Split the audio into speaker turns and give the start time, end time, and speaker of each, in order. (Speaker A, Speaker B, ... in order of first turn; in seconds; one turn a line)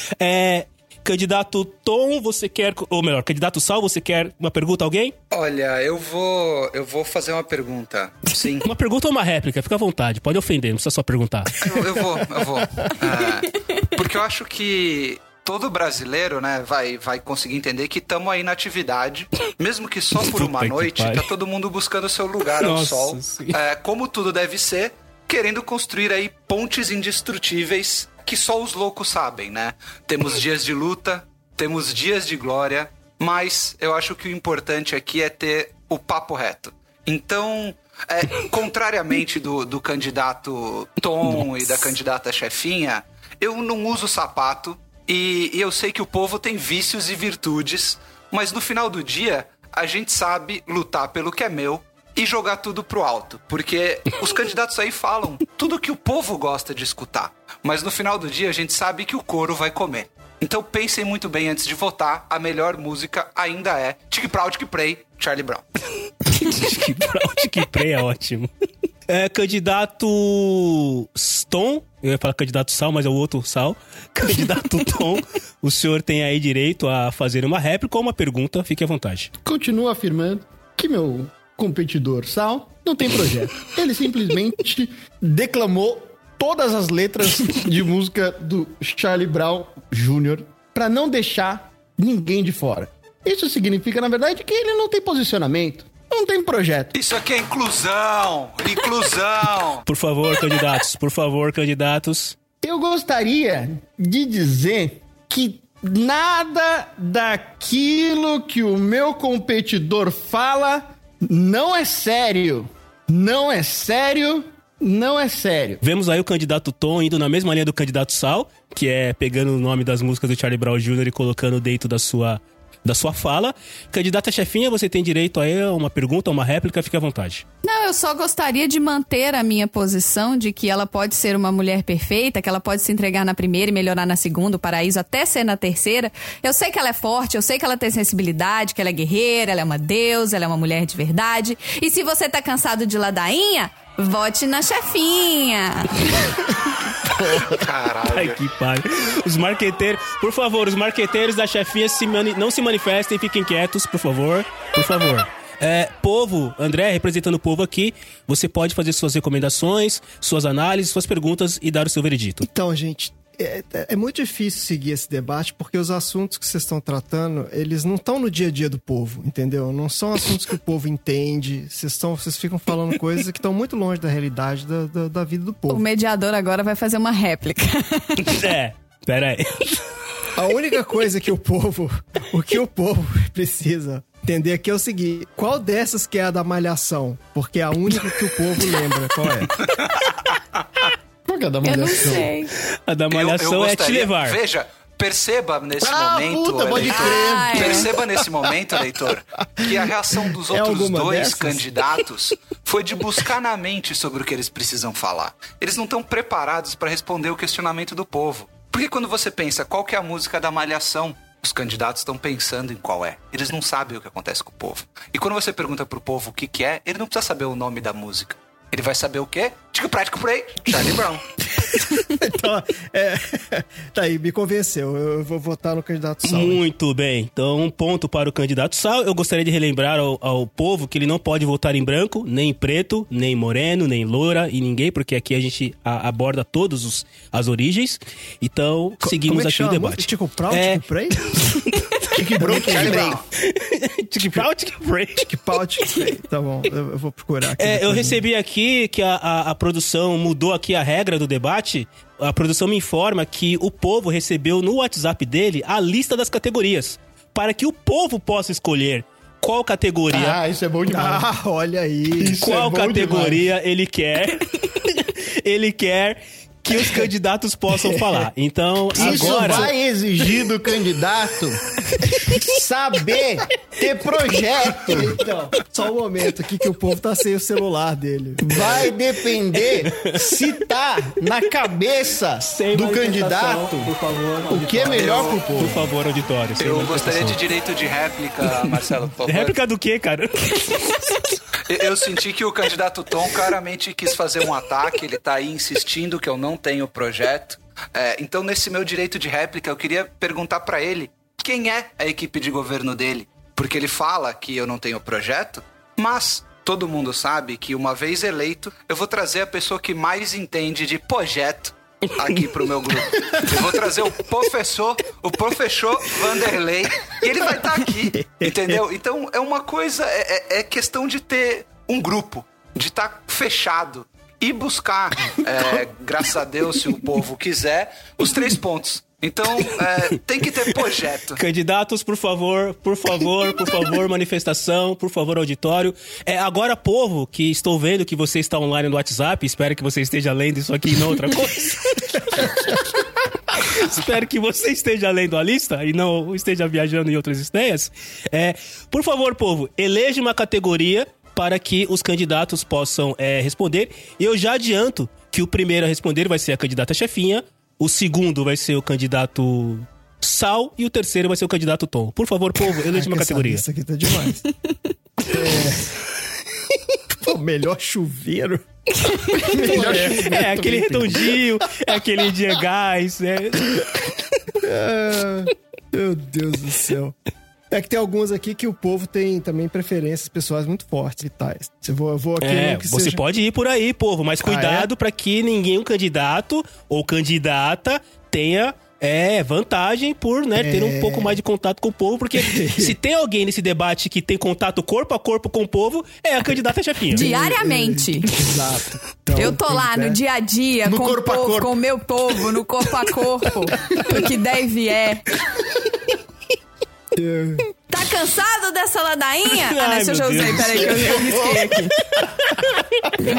Speaker A: 0.2-5.1
Speaker B: 5.3-8.7
Speaker A: 8.6-11.8
Speaker B: 11.6-65.7
Speaker A: 20.3-21.3
Speaker A: 22.6-23.6
Speaker A: 66.3-68.5
Speaker A: 69.1-79.3
Speaker C: 79.4-96.9
Speaker B: 96.9-99.8
Speaker A: 99.9-102.4
Speaker C: 102.6-115.8
Speaker A: 115.8-127.4
Speaker D: 127.6-146.3
Speaker C: 147.2-147.6
Speaker B: 147.5-148.4
Speaker A: 148.1-162.4
Speaker E: 162.4-175.8
Speaker D: 175.7-178.4
Speaker A: 178.2-179.8
Speaker E: 180.3-189.5
Speaker C: 191.3-192.3
Speaker D: 191.6-192.5
Speaker A: 192.9-194.4
Speaker B: 193.1-221.3
Speaker C: 195.8-198.2
Speaker D: 196.9-197.9
Speaker E: 200.5-201.6
Speaker E: 222.2-226.6
Speaker A: 226.2-245.3
Speaker E: 239.0-241.4
Speaker C: 242.1-243.2
Speaker E: 242.4-243.2
Speaker B: 242.7-243.1
Speaker E: 245.2-248.2
Speaker A: 247.6-260.4
Speaker C: 260.1-261.3
Speaker E: 260.9-262.4
Speaker C: 262.2-263.4
Speaker A: 262.4-269.7
Speaker C: 267.8-268.2
Speaker C: 268.9-271.6
Speaker E: 269.0-269.6
Speaker A: 272.0-272.4
Speaker C: 272.3-275.2
Speaker E: 275.1-278.7
Speaker C: 278.4-283.9
Speaker A: 279.8-280.2
Speaker A: 282.4-287.4
Speaker C: 284.5-285.8
Speaker B: 284.9-285.4
Speaker B: 286.6-289.6
Speaker A: 288.6-291.3
Speaker B: 291.7-331.4
Speaker E: 318.4-318.8
Speaker A: 331.4-363.6
Speaker E: 362.9-364.4
Speaker E: 365.2-365.9
Speaker E: 367.2-368.6
Speaker D: 369.1-369.4
Speaker C: 369.5-371.4
Speaker E: 369.6-370.4
Speaker A: 369.9-374.0
Speaker E: 374.6-377.1
Speaker E: 377.7-383.2
Speaker A: 382.4-397.3
Speaker E: 384.4-384.9
Speaker E: 390.6-391.4
Speaker E: 392.4-392.9
Speaker D: 397.1-398.3
Speaker E: 397.2-400.2
Speaker D: 399.4-405.3
Speaker C: 400.8-401.8
Speaker C: 403.9-404.2
Speaker E: 407.1-407.6
Speaker D: 407.9-411.9
Speaker A: 409.6-411.3
Speaker C: 410.7-412.2